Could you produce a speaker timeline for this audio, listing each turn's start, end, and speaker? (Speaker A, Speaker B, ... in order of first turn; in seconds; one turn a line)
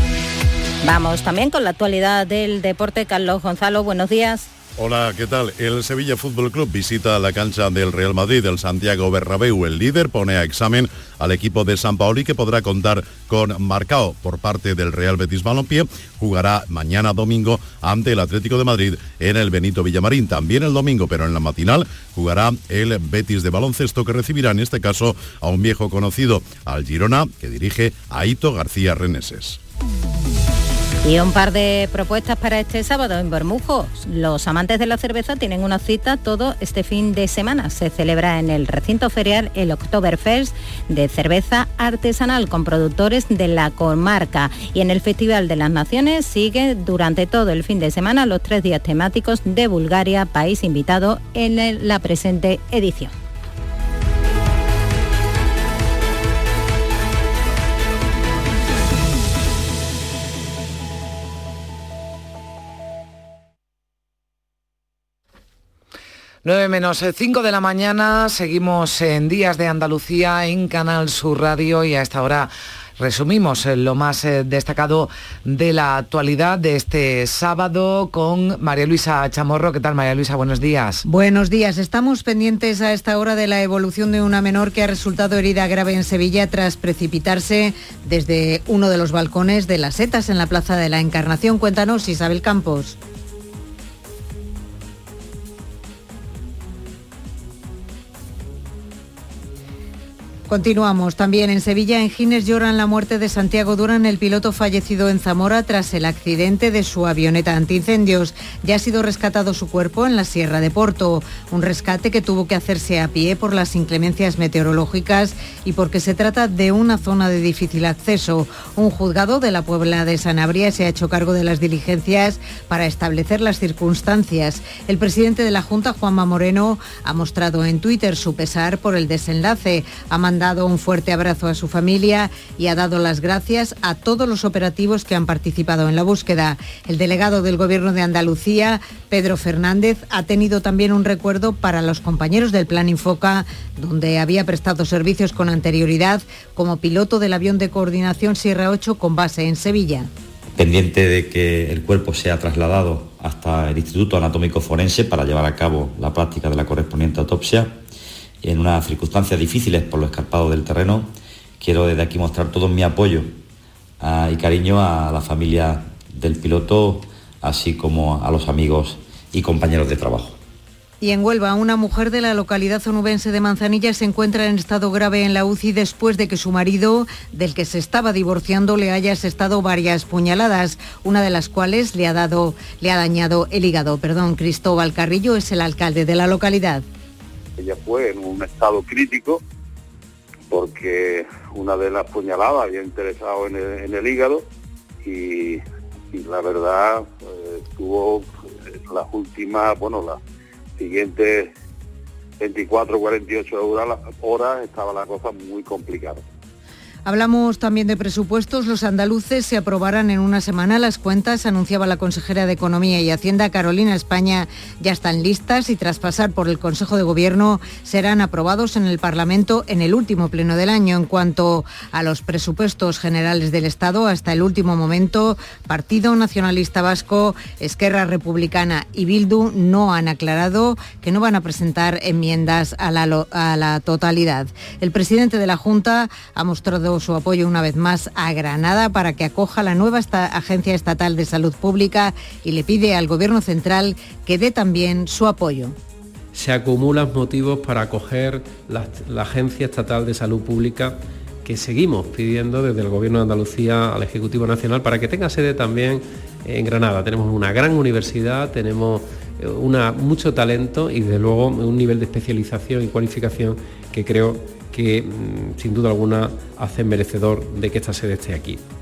Speaker A: 0.8-4.5
Speaker B: 4.8-29.6
Speaker A: 31.0-53.1
Speaker C: 66.4-81.0
Speaker D: 81.0-93.0
Speaker D: 100.5-150.1
Speaker E: 150.6-157.8
Speaker E: 158.4-163.3
Speaker E: 164.0-170.4
Speaker D: 171.0-186.8
Speaker F: 187.6-189.4
Speaker F: 190.5-194.4
Speaker F: 195.0-198.3
Speaker F: 198.8-200.2
Speaker F: 200.8-201.5
Speaker F: 202.4-206.2
Speaker D: 207.1-245.7
Speaker G: 246.3-268.6